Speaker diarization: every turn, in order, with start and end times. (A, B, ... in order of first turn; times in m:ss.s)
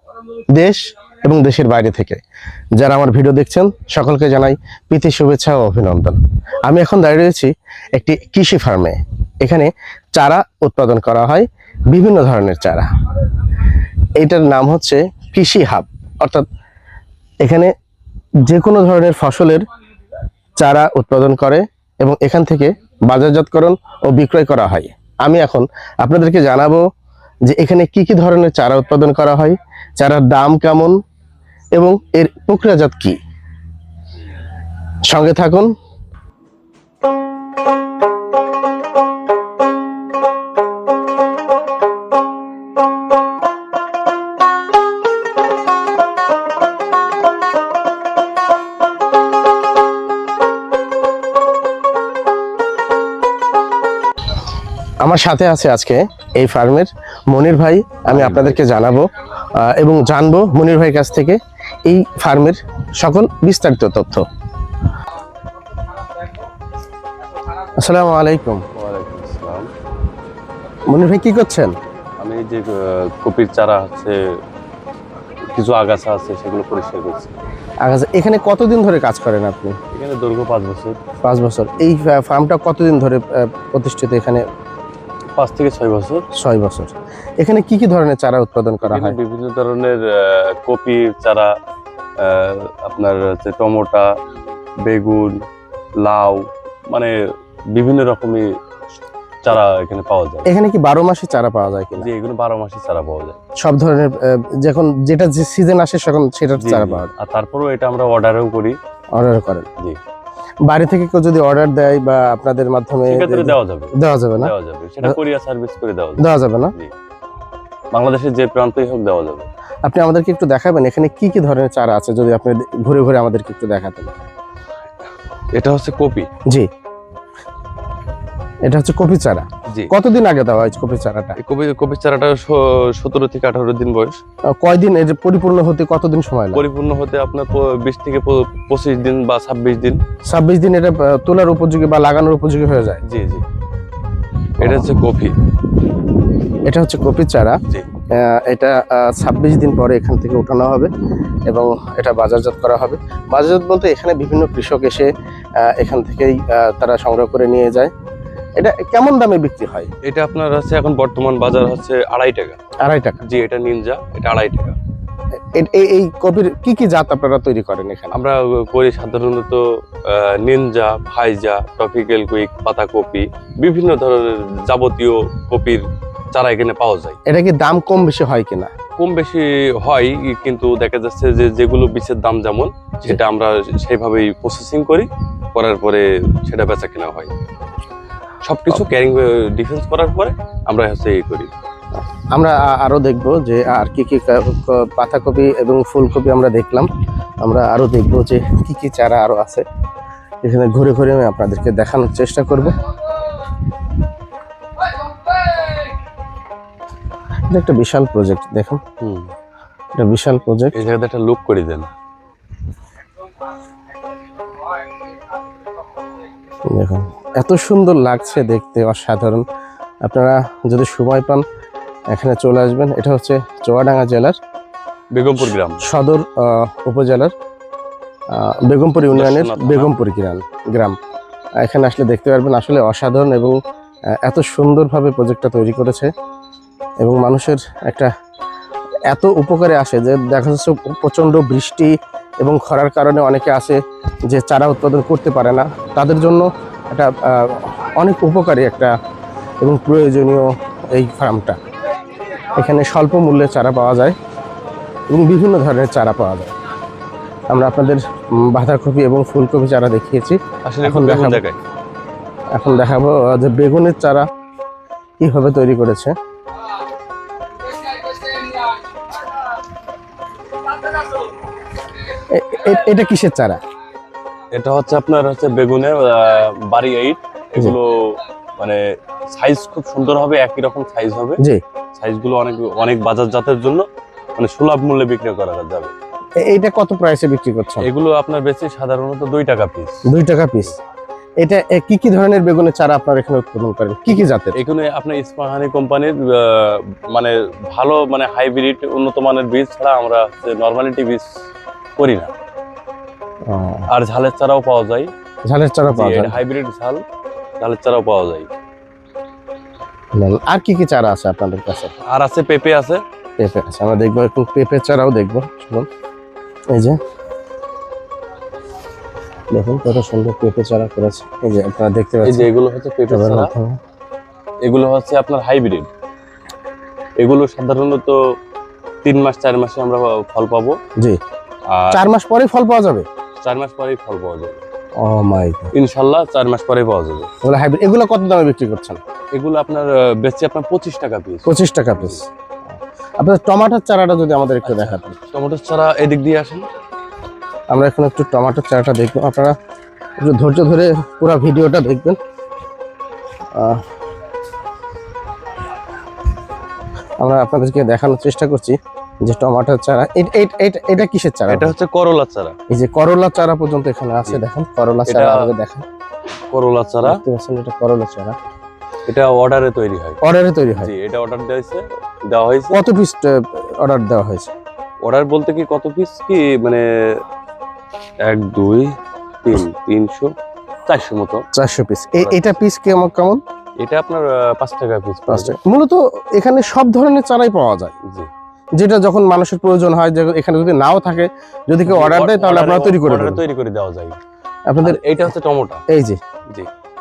0:00.5-0:02.2 A
0:02.8-0:12.9 A
0:14.2-0:16.4 A
0:17.4-0:17.7 A
0:18.5-0:19.7 A
0:20.6-0:26.8 A
0:27.4-0:31.0 A
0:31.8-0:33.2 A
0:35.1-0:35.7 A
0:55.0-1:04.2 A
0:58.1-0:58.6 B
1:07.8-1:08.6 A
1:08.7-1:09.7 B
1:10.9-1:11.7 A
1:12.2-1:14.2 B
1:15.5-1:17.3 B
1:17.8-1:19.8 A
1:19.9-1:21.0 B
1:21.2-1:24.4 A
1:25.4-1:26.2 B
1:26.4-1:29.2 A
1:28.8-1:31.5 B
1:32.2-1:34.1 B
1:34.8-1:35.3 B
1:36.0-1:37.1 B
1:37.7-1:38.4 B
1:39.4-1:40.5 B
1:40.4-1:42.1 A
1:42.0-1:43.4 B
1:43.6-1:47.1 A
1:46.6-1:48.8 B
1:49.1-1:49.7 A
1:50.7-1:55.2 A
1:53.0-1:56.9 B
1:56.2-1:56.7 A
1:57.9-1:59.5 B
1:59.8-2:04.2 A
2:05.5-2:06.3 B
2:08.6-2:11.4 A
2:11.4-2:14.2 B
2:14.6-2:16.6 A
2:16.5-2:20.0 B
2:20.3-2:23.0 A
2:23.0-2:23.4 B
2:24.6-2:25.4 B
2:24.6-2:24.9 A
2:26.6-2:27.6 A
2:28.1-2:30.9 A
2:31.5-2:35.1 A
2:35.6-2:37.9 A
2:38.6-2:39.9 A
2:40.0-2:42.6 B
2:42.8-2:43.2 A
2:43.2-2:44.8 B
2:45.5-2:48.2 A
2:48.1-2:57.2 B
2:57.3-2:58.7 A
2:59.0-3:07.3 B
3:08.4-3:11.5 B
3:11.9-3:16.9 A
3:17.4-3:19.6 A
3:20.4-3:22.8 A
3:27.5-3:28.8 A
3:29.0-3:29.3 B
3:29.9-3:30.7 A
3:30.7-3:31.9 B
3:36.7-3:39.4 A
3:40.0-3:41.4 A
3:42.1-3:44.3 A
3:45.1-3:45.8 B
3:45.5-3:47.3 A
3:48.3-3:51.0 A
3:49.1-3:49.9 B
3:51.6-3:53.6 A
3:54.2-3:56.1 A
3:57.0-3:58.1 A
3:59.1-4:08.9 A
4:09.6-4:11.6 A
4:12.5-4:14.2 A
4:15.1-4:16.5 A
4:17.5-4:21.4 A
4:20.6-4:21.6 B
4:22.5-4:24.2 A
4:25.2-4:26.1 A
4:32.1-4:33.6 A
4:34.5-4:38.8 B
4:39.3-4:41.4 B
4:42.0-4:43.8 B
4:44.4-4:45.9 B
4:46.4-4:47.8 A
4:47.8-4:50.0 B
4:50.0-4:50.8 A
4:51.4-4:54.6 A
4:54.5-5:01.2 B
5:02.0-5:02.3 B
5:03.5-5:03.9 A
5:03.9-5:05.1 B
5:05.5-5:06.4 A
5:05.9-5:07.0 B
5:07.6-5:08.5 B
5:10.1-5:11.9 A
5:12.1-5:13.0 B
5:13.4-5:15.9 A
5:16.7-5:17.0 A
5:19.5-5:22.5 A
5:22.2-5:23.5 B
5:23.1-5:23.8 A
5:24.6-5:25.9 B
5:27.2-5:28.2 B
5:29.0-5:30.8 B
5:31.7-5:32.0 B
5:31.9-5:33.0 A
5:33.4-5:34.6 B
5:35.0-5:35.7 A
5:35.7-5:37.3 B
5:37.4-5:39.0 A
5:39.3-5:42.2 B
5:41.4-5:42.2 A
5:43.2-5:45.2 A
5:44.6-5:46.6 B
5:47.7-5:49.5 A
5:50.2-5:52.2 A
5:53.6-5:53.8 A
5:57.2-6:01.7 A
6:01.5-6:02.5 B
6:02.7-6:05.8 A
6:05.1-6:05.5 B
6:06.5-6:07.2 B
6:07.0-6:08.3 A
6:09.1-6:10.2 B
6:10.2-6:10.9 A
6:10.8-6:12.8 B
6:12.7-6:14.5 A
6:15.0-6:17.2 B
6:18.2-6:20.3 B
6:20.9-6:21.4 B
6:21.5-6:23.4 A
6:22.1-6:22.6 B
6:23.8-6:25.6 B
6:25.3-6:27.9 A
6:28.8-6:33.4 A
6:31.8-6:34.2 B
6:34.7-6:35.1 A
6:34.8-6:35.8 B
6:35.9-6:36.2 A